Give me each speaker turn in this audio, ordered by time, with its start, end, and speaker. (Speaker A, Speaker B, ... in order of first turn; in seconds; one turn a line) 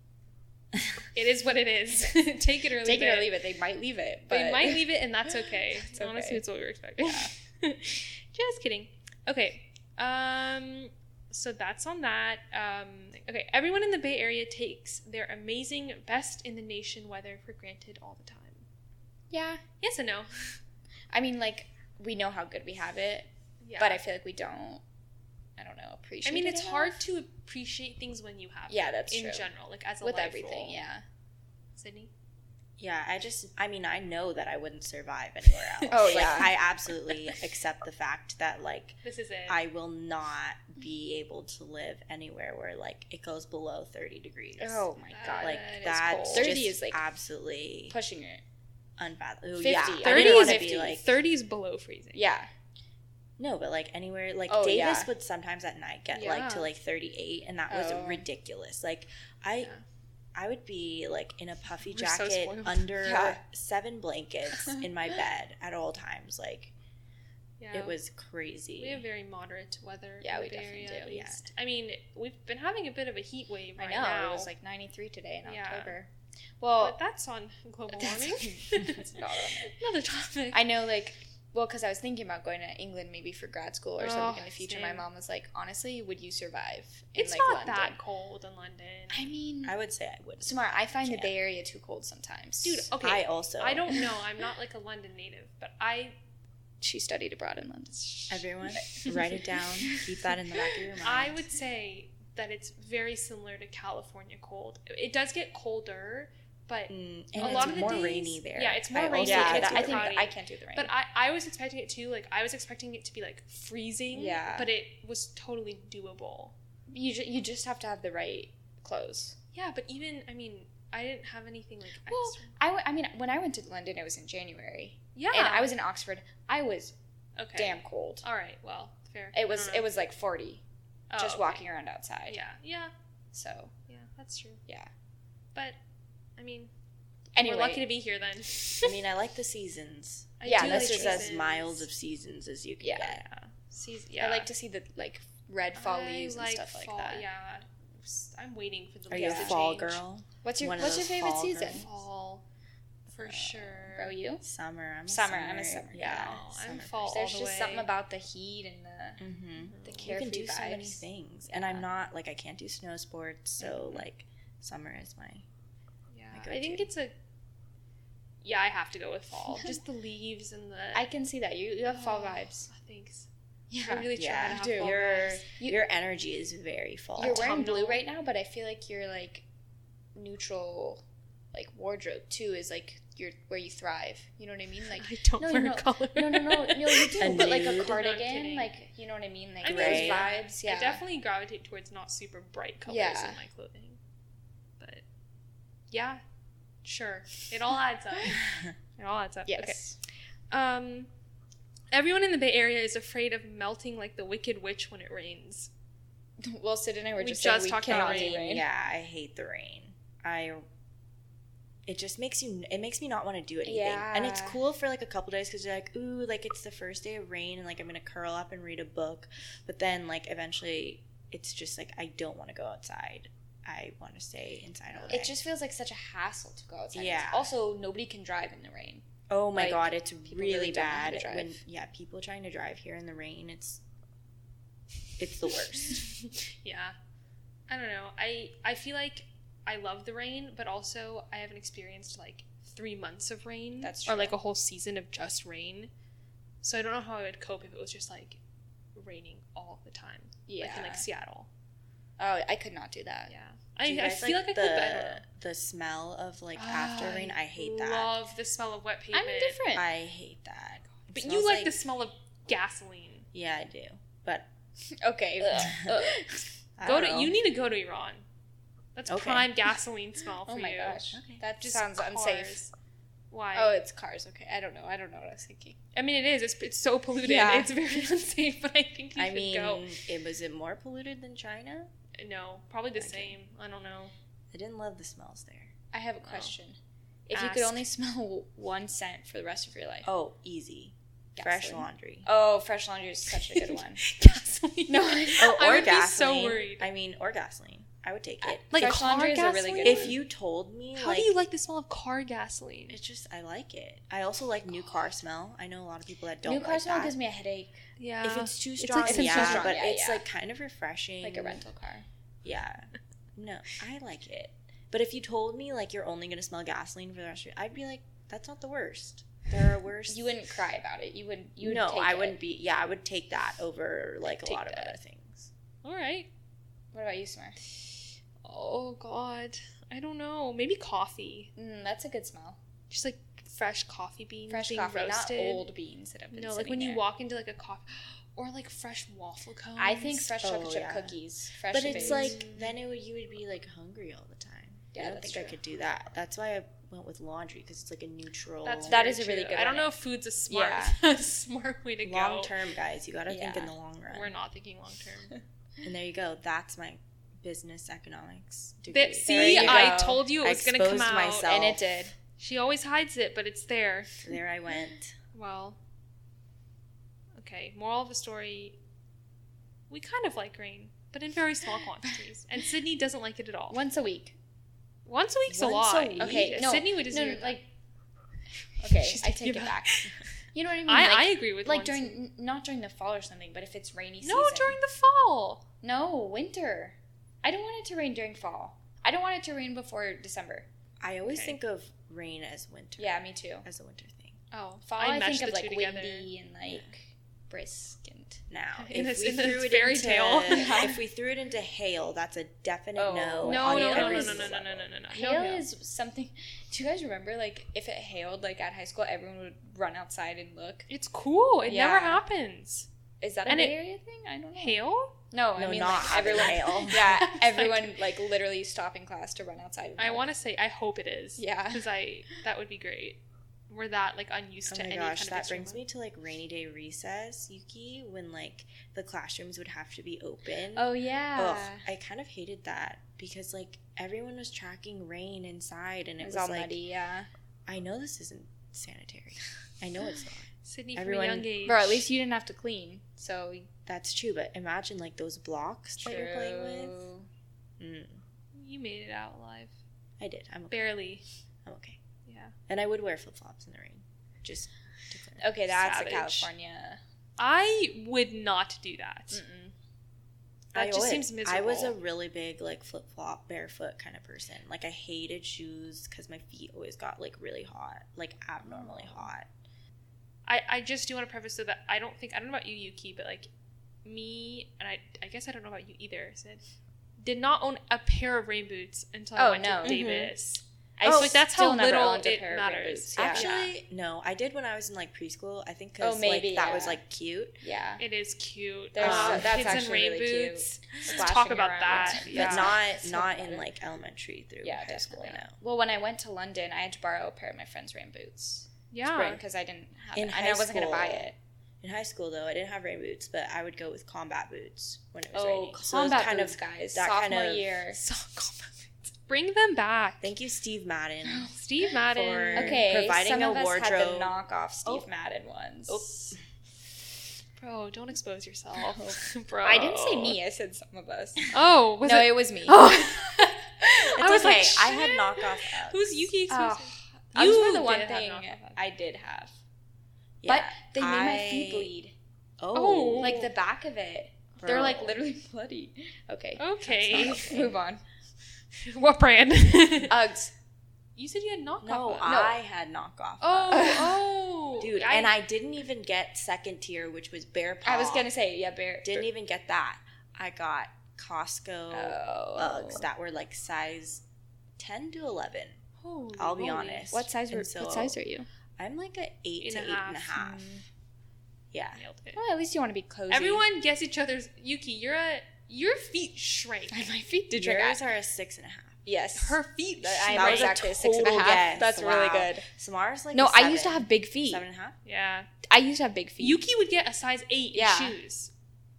Speaker A: 1.1-3.3
Speaker B: 2.8-4.9
Speaker A: 4.3-18.6
Speaker B: 5.7-6.4
Speaker B: 7.0-7.3
Speaker B: 19.3-19.6
Speaker A: 19.8-20.6
Speaker B: 21.1-24.8
Speaker A: 23.6-24.0
Speaker B: 25.6-27.1
Speaker A: 26.2-30.8
Speaker B: 28.7-29.5
Speaker B: 30.0-31.0
Speaker A: 31.7-32.1
Speaker C: 32.8-44.9
Speaker B: 35.9-36.6
Speaker A: 39.0-39.6
Speaker B: 44.6-47.0
Speaker A: 45.1-46.5
Speaker C: 45.4-48.0
Speaker B: 47.9-48.4
Speaker C: 49.0-51.1
Speaker B: 49.6-50.7
Speaker A: 50.0-52.2
Speaker B: 52.1-52.5
Speaker C: 53.4-59.7
Speaker B: 54.5-55.1
Speaker A: 56.1-56.7
Speaker B: 57.7-58.2
Speaker C: 60.3-66.7
Speaker A: 61.9-62.9
Speaker B: 63.0-63.4
Speaker B: 64.6-64.8
Speaker A: 67.6-68.0
Speaker C: 67.7-69.0
Speaker A: 68.8-74.5
Speaker B: 70.2-71.2
Speaker C: 71.1-71.4
Speaker B: 73.8-77.0
Speaker A: 75.4-76.0
Speaker A: 76.8-80.6
Speaker B: 77.9-79.8
Speaker B: 80.5-88.0
Speaker A: 84.0-85.0
Speaker A: 87.2-89.3
Speaker B: 89.1-89.8
Speaker C: 89.6-91.3
Speaker B: 90.4-92.9
Speaker A: 92.6-96.2
Speaker C: 93.0-94.0
Speaker B: 96.8-100.9
Speaker C: 98.3-101.4
Speaker A: 101.0-116.5
Speaker C: 106.9-110.1
Speaker B: 107.4-108.2
Speaker B: 109.2-110.9
Speaker B: 114.1-114.7
Speaker B: 116.9-119.3
Speaker A: 119.5-122.5
Speaker B: 122.1-126.9
Speaker A: 125.2-125.7
Speaker A: 127.4-129.9
Speaker B: 127.5-128.2
Speaker B: 129.3-130.6
Speaker A: 131.1-131.6
Speaker B: 131.2-132.4
Speaker A: 132.3-132.9
Speaker B: 133.3-133.7
Speaker A: 133.9-134.6
Speaker A: 136.4-136.7
Speaker B: 137.3-137.8
Speaker A: 137.4-139.0
Speaker C: 138.8-143.2
Speaker A: 140.4-141.9
Speaker B: 140.4-141.3
Speaker B: 142.8-143.2
Speaker A: 143.2-144.5
Speaker B: 144.2-147.2
Speaker A: 145.7-150.0
Speaker C: 149.1-151.8
Speaker B: 149.1-149.6
Speaker B: 150.4-151.9
Speaker A: 151.8-152.4
Speaker A: 153.1-154.2
Speaker C: 153.2-153.8
Speaker B: 153.9-154.4
Speaker C: 154.4-157.0
Speaker B: 155.1-156.4
Speaker A: 156.0-157.9
Speaker B: 157.0-159.2
Speaker C: 159.2-165.4
Speaker A: 159.6-160.1
Speaker B: 159.8-161.9
Speaker B: 163.6-164.0
Speaker A: 166.1-167.1
Speaker C: 166.3-166.9
Speaker A: 168.4-171.1
Speaker B: 169.5-169.8
Speaker B: 170.9-172.7
Speaker A: 171.9-173.3
Speaker B: 173.7-175.0
Speaker A: 173.8-175.4
Speaker C: 174.1-177.5
Speaker A: 177.2-178.0
Speaker B: 177.2-179.4
Speaker B: 180.1-191.0
Speaker A: 184.9-188.7
Speaker C: 187.2-188.0
Speaker A: 189.6-194.0
Speaker C: 189.7-190.3
Speaker B: 192.9-193.4
Speaker A: 195.9-196.2
Speaker A: 196.8-199.8
Speaker B: 199.5-200.0
Speaker A: 200.5-201.1
Speaker A: 201.9-205.7
Speaker B: 206.4-208.7
Speaker A: 207.2-208.4
Speaker C: 207.9-210.6
Speaker C: 211.8-225.3
Speaker B: 213.6-214.6
Speaker B: 225.1-231.6
Speaker C: 226.9-227.5
Speaker C: 229.3-233.8
Speaker C: 235.2-236.1
Speaker A: 235.9-236.9
Speaker A: 237.7-245.9
Speaker B: 243.8-244.3
Speaker A: 246.6-248.4
Speaker A: 248.9-251.5
Speaker B: 250.5-251.0
Speaker B: 252.2-253.3
Speaker A: 253.3-255.2
Speaker C: 253.8-258.1
Speaker A: 256.5-259.6
Speaker B: 259.1-259.9
Speaker C: 259.7-261.7
Speaker A: 261.1-263.3
Speaker C: 263.3-264.5
Speaker B: 265.0-266.5
Speaker C: 265.4-266.2
Speaker C: 266.8-267.3
Speaker A: 266.8-268.2
Speaker A: 268.9-271.1
Speaker C: 269.1-269.5
Speaker B: 270.5-272.6
Speaker C: 271.1-271.4
Speaker A: 271.6-272.7
Speaker A: 273.3-273.7
Speaker B: 273.5-275.8
Speaker A: 275.9-279.9
Speaker B: 277.2-277.7
Speaker C: 279.1-281.9
Speaker A: 282.2-284.1
Speaker C: 282.9-283.4
Speaker C: 284.5-285.7
Speaker B: 285.9-290.1
Speaker A: 286.2-286.5
Speaker A: 287.3-287.8
Speaker C: 290.0-292.3
Speaker B: 291.4-294.1
Speaker A: 293.4-296.9
Speaker B: 294.9-295.6
Speaker C: 295.4-299.0
Speaker B: 298.4-300.2
Speaker A: 298.7-300.2
Speaker C: 299.8-301.3
Speaker A: 300.9-303.0
Speaker C: 302.9-307.1
Speaker B: 306.4-307.8
Speaker A: 308.0-309.7
Speaker C: 308.2-311.6
Speaker B: 309.0-310.2
Speaker B: 311.2-312.1
Speaker C: 312.4-320.3
Speaker B: 320.1-322.4
Speaker C: 321.6-325.5
Speaker A: 324.4-324.9
Speaker A: 325.8-326.3
Speaker B: 326.9-327.6
Speaker A: 328.4-331.5
Speaker B: 331.6-332.6
Speaker A: 332.9-335.6
Speaker B: 334.5-337.0
Speaker A: 336.3-340.3
Speaker B: 339.8-342.5
Speaker C: 340.4-341.1
Speaker C: 341.7-349.0
Speaker A: 341.9-342.7
Speaker B: 344.9-345.6
Speaker A: 348.6-352.5
Speaker B: 348.9-349.9
Speaker B: 350.5-351.0
Speaker C: 352.0-354.3
Speaker B: 353.3-353.7
Speaker A: 354.1-355.3
Speaker C: 355.8-361.8
Speaker A: 358.9-361.5
Speaker B: 359.2-360.2
Speaker B: 361.4-362.1
Speaker A: 362.4-364.2
Speaker C: 364.2-365.1
Speaker A: 365.3-365.8
Speaker A: 367.4-368.8
Speaker A: 369.9-373.8
Speaker B: 373.7-374.3
Speaker A: 375.1-377.6
Speaker C: 375.5-376.6
Speaker B: 376.2-377.7
Speaker B: 378.8-384.8
Speaker A: 378.8-380.3
Speaker A: 380.9-382.2
Speaker A: 384.2-385.6
Speaker B: 385.8-390.7
Speaker C: 391.0-394.4
Speaker A: 391.2-391.6
Speaker B: 393.0-393.6
Speaker A: 394.5-396.3
Speaker B: 394.9-398.4
Speaker C: 398.5-404.9
Speaker A: 398.8-400.9
Speaker B: 400.5-401.0
Speaker B: 402.9-404.5
Speaker A: 403.4-405.6
Speaker B: 405.1-410.9
Speaker A: 410.9-412.9
Speaker B: 411.7-412.2
Speaker B: 413.2-420.2
Speaker A: 413.4-413.8
Speaker A: 414.6-415.2
Speaker C: 415.6-417.2
Speaker A: 416.2-418.0
Speaker A: 420.0-425.8
Speaker B: 421.4-421.9
Speaker C: 424.7-436.8
Speaker B: 430.7-431.8
Speaker B: 436.2-437.3
Speaker C: 437.7-441.5
Speaker A: 440.6-442.1
Speaker B: 441.6-443.7
Speaker C: 443.9-447.0
Speaker B: 446.0-447.3
Speaker C: 447.8-448.2
Speaker A: 448.5-449.7
Speaker C: 450.2-450.9
Speaker A: 450.7-451.2
Speaker C: 451.6-452.0
Speaker A: 452.2-452.5
Speaker C: 452.7-455.4
Speaker B: 455.4-457.0
Speaker A: 455.7-456.5
Speaker A: 457.4-459.4
Speaker B: 459.3-459.7
Speaker C: 460.7-469.5
Speaker A: 460.7-462.0
Speaker A: 470.4-473.5
Speaker A: 474.0-476.6
Speaker A: 477.2-483.7
Speaker B: 479.4-480.0
Speaker C: 479.8-480.3
Speaker B: 481.0-483.6
Speaker C: 481.0-481.4
Speaker C: 483.2-487.6
Speaker B: 486.0-487.0
Speaker B: 487.6-488.0
Speaker A: 488.0-492.8
Speaker B: 488.9-493.7
Speaker C: 489.0-489.8
Speaker C: 492.2-495.5
Speaker B: 494.6-501.4
Speaker A: 498.9-499.4
Speaker C: 500.1-501.3
Speaker C: 501.8-507.7
Speaker B: 505.3-508.0
Speaker A: 507.9-510.3
Speaker C: 510.2-511.5
Speaker A: 511.5-512.8
Speaker C: 512.1-515.1
Speaker B: 512.5-516.1
Speaker C: 515.9-516.4
Speaker A: 517.6-520.4
Speaker B: 518.8-523.5
Speaker A: 521.5-528.8
Speaker C: 524.1-526.3
Speaker B: 526.5-529.5
Speaker C: 530.4-531.9
Speaker B: 530.5-532.1
Speaker C: 532.6-533.5
Speaker A: 532.7-533.5
Speaker B: 533.2-538.0
Speaker C: 534.6-535.2
Speaker A: 536.6-537.7
Speaker C: 537.1-537.7
Speaker A: 538.7-540.2
Speaker B: 540.1-540.5
Speaker A: 541.1-542.3
Speaker C: 541.8-543.9
Speaker B: 542.2-542.6
Speaker A: 543.4-545.3
Speaker B: 543.7-544.3
Speaker C: 544.8-548.3
Speaker B: 547.8-549.3
Speaker C: 549.0-554.2
Speaker B: 551.9-553.0
Speaker C: 554.8-555.8
Speaker A: 556.0-557.1
Speaker C: 556.4-558.2
Speaker B: 557.1-558.5
Speaker C: 558.8-560.6
Speaker A: 559.6-560.4
Speaker B: 560.4-560.8
Speaker C: 561.7-562.0
Speaker A: 562.0-562.4
Speaker B: 562.4-563.6
Speaker A: 563.3-567.0
Speaker B: 566.9-568.0
Speaker C: 567.5-569.0
Speaker B: 569.0-572.7
Speaker A: 569.3-570.8
Speaker C: 570.3-575.0
Speaker B: 573.3-574.6
Speaker A: 575.0-575.5
Speaker B: 575.6-576.6
Speaker A: 576.4-578.5
Speaker B: 577.7-578.2